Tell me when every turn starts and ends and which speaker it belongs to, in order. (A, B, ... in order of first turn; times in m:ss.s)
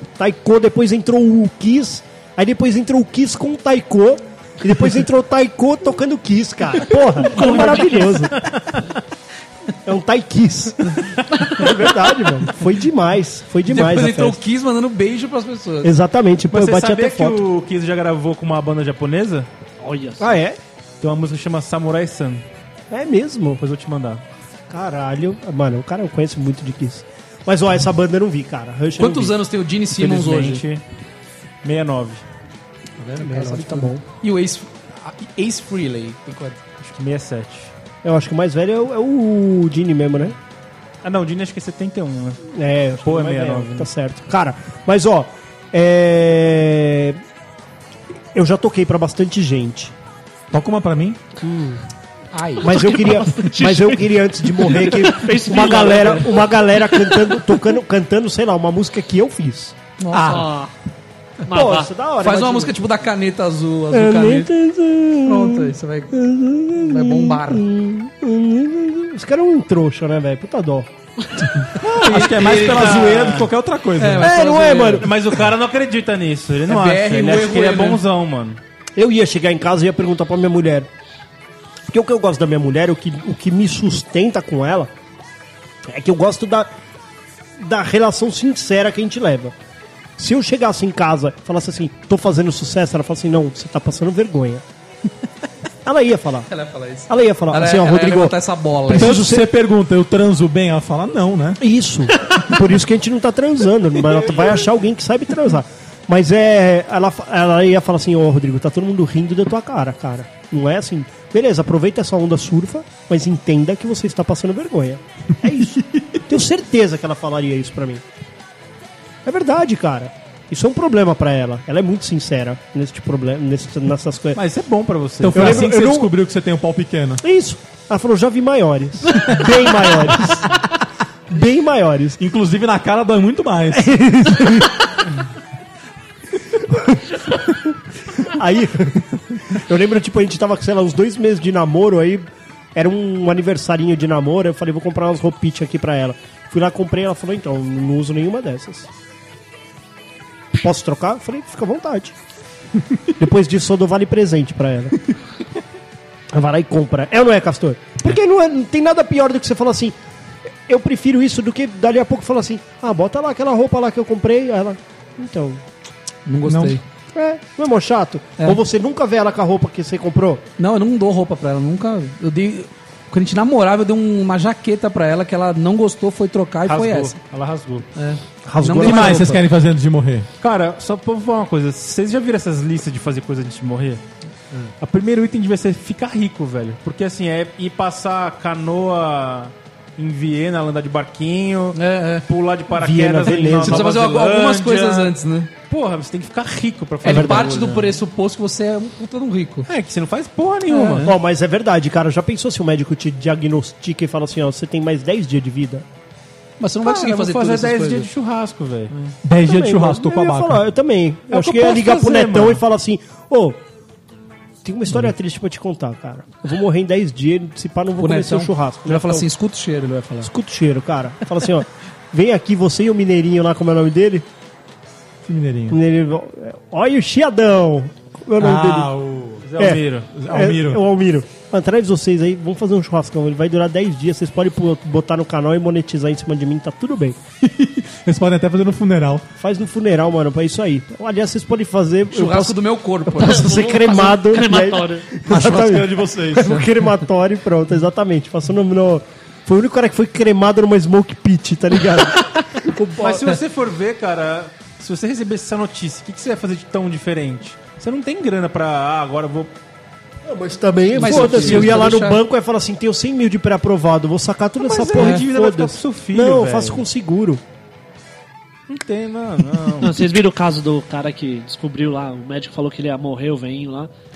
0:00.2-0:08.3 A
0:07.4-0:08.8 B
0:09.8-0:14.4 A
0:13.7-0:15.9 C
0:15.8-0:17.4 A
0:16.5-0:19.5 B
0:19.8-0:20.4 D
0:20.2-0:20.6 A
0:21.0-0:22.4 B
0:22.9-0:23.6 A
0:23.6-0:24.2 B
0:24.7-0:29.4 A
0:29.0-0:30.6 C
0:29.9-0:30.8 B
0:31.6-0:32.2 B
0:33.0-0:36.7 C
0:33.2-0:34.0 A
0:36.9-0:37.7 B
0:38.0-0:40.4 A
0:41.0-0:42.4 B
0:42.5-0:47.2 A
0:43.0-0:43.9 B
0:48.3-0:49.9 A
0:50.5-0:51.2 E
0:51.4-0:51.8 A
0:52.3-0:53.0 C
0:52.6-0:59.7 A
0:52.6-0:56.5 D
1:00.0-1:00.5 C
1:00.1-1:00.5 E
1:00.2-1:00.7 D
1:01.4-1:01.9 D
1:01.5-1:02.7 A
1:02.2-1:04.5 C
1:03.9-1:10.9 A
1:05.2-1:06.1 C
1:06.7-1:07.7 C
1:11.7-1:14.3 E
1:12.0-1:13.2 C
1:12.4-1:13.5 B
1:14.0-1:15.1 C
1:14.2-1:15.1 A
1:15.0-1:18.6 B
1:16.7-1:18.0 C
1:19.0-1:20.9 A
1:21.9-1:24.9 A
1:25.9-1:26.7 A
1:27.6-1:29.5 A
1:30.2-1:34.6 A
1:35.8-1:36.5 A
1:36.5-1:39.2 C
1:37.1-1:38.4 A
1:38.9-1:39.5 A
1:38.9-1:41.6 E
1:41.6-1:58.0 A
1:59.2-2:04.4 A
2:04.3-2:05.6 B
2:05.2-2:07.2 E
2:05.3-2:06.1 A
2:07.2-2:10.6 A
2:11.3-2:12.2 A
2:12.2-2:13.9 E
2:13.7-2:15.0 A
2:16.7-2:17.1 A
2:18.2-2:28.9 A
2:30.5-2:32.1 A
2:33.2-2:35.0 A
2:36.3-2:40.0 A
2:40.7-2:45.6 A
2:46.2-2:46.8 C
2:46.4-2:46.8 E
2:47.1-2:50.4 A
2:50.6-2:57.1 C
2:56.7-2:57.9 B
2:58.0-2:59.4 C
2:58.4-2:59.4 A
2:58.7-3:00.3 E
3:00.4-3:15.1 B
3:11.7-3:12.2 C
3:12.7-3:13.9 A
3:13.6-3:15.5 C
3:15.7-3:18.0 B
3:17.0-3:19.7 C
3:17.0-3:17.5 A
3:19.7-3:21.1 B
3:20.7-3:21.1 C
3:21.0-3:25.8 A
3:26.6-3:28.1 C
3:26.8-3:29.1 B
3:29.2-3:30.6 E
3:29.4-3:33.6 A
3:31.3-3:32.6 B
3:34.6-3:39.3 A
3:38.0-3:40.3 C
3:40.2-3:44.2 A
3:45.2-3:45.8 E
3:45.7-3:48.9 A
3:48.4-3:49.4 E
3:49.4-3:50.1 B
3:49.6-3:57.2 A
3:50.1-3:50.8 E
3:57.4-3:59.2 E
3:59.4-4:13.4 A
4:02.1-4:03.8 C
4:03.2-4:05.3 D
4:05.2-4:06.7 E
4:13.0-4:19.5 B
4:20.2-4:27.4 A
4:21.0-4:22.2 C
4:21.0-4:21.9 B
4:24.6-4:26.8 B
4:28.7-4:30.0 B
4:29.8-4:33.9 D